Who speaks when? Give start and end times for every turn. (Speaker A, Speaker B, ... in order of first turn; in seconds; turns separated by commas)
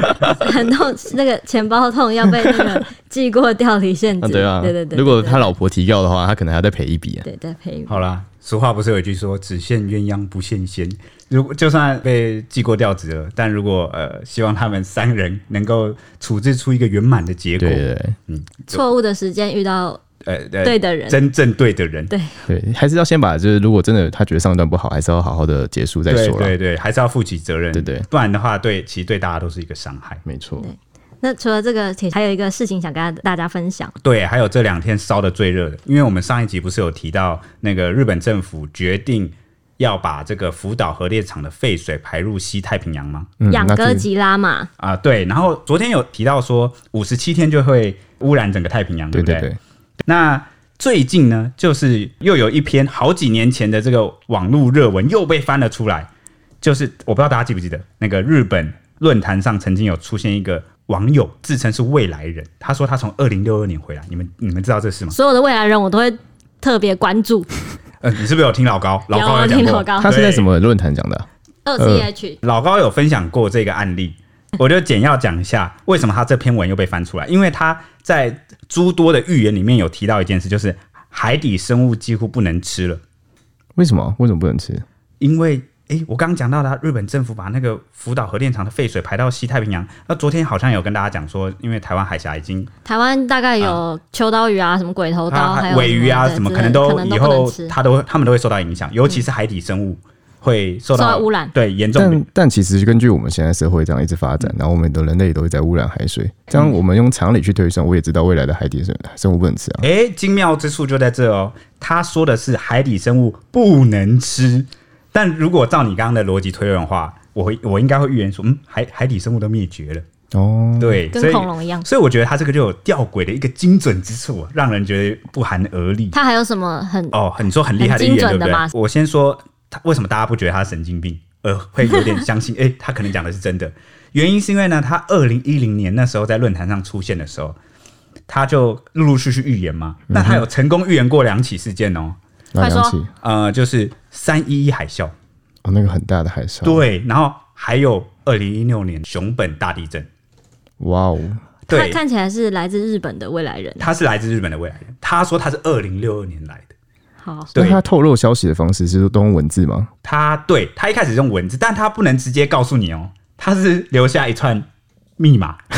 Speaker A: 0.4-5.5, Speaker B: 4.2-7.2, Speaker A: 7.2-8.0, Speaker C: 7.9-18.8, Speaker B: 17.6-18.2, Speaker A: 18.7-20.0, Speaker C: 20.2-22.1, Speaker A: 20.6-21.2, Speaker B: 22.5-26.5, Speaker C: 26.1-30.2, Speaker B: 27.7-28.1, Speaker B: 30.2-30.7, Speaker A: 30.6-33.9, Speaker C: 34.0-43.3, Speaker B: 43.4-44.0, Speaker A: 43.5-44.7, Speaker C: 44.8-49.5, Speaker B: 49.1-49.6, Speaker C: 50.0-56.1, Speaker C: 56.6-65.2, Speaker A: 65.1-67.5, Speaker C: 68.0-70.5, Speaker A: 69.1-70.2, Speaker B: 70.0-71.2, Speaker A: 71.6-72.4, Speaker B: 71.8-72.1, Speaker C: 72.4-83.0, Speaker B: 83.8-84.8, Speaker C: 85.2-92.7, Speaker A: 92.8-97.7, Speaker C: 95.3-102.2, Speaker A: 100.9-101.5, Speaker B: 101.9-109.8, Speaker C: 109.8-120.0, Speaker B: 120.3-121.0, Speaker C: 120.8-126.1, Speaker A: 121.1-121.8, Speaker A: 126.1-127.2, Speaker C: 127.1-137.6, Speaker A: 127.8-128.7, Speaker C: 138.3-142.2, Speaker B: 140.1-140.4, Speaker B: 142.5-143.1, Speaker A: 142.6-143.0, Speaker C: 143.2-145.1, Speaker B: 145.6-146.8, Speaker C: 146.6-150.1, Speaker B: 150.8-151.4, Speaker C: 151.7-152.0, Speaker A: 151.7-153.9, Speaker C: 153.8-156.7, Speaker A: 157.2-157.5, Speaker C: 157.5-157.8, Speaker B: 157.5-159.9, Speaker C: 160.0-164.7, Speaker C: 165.2-165.6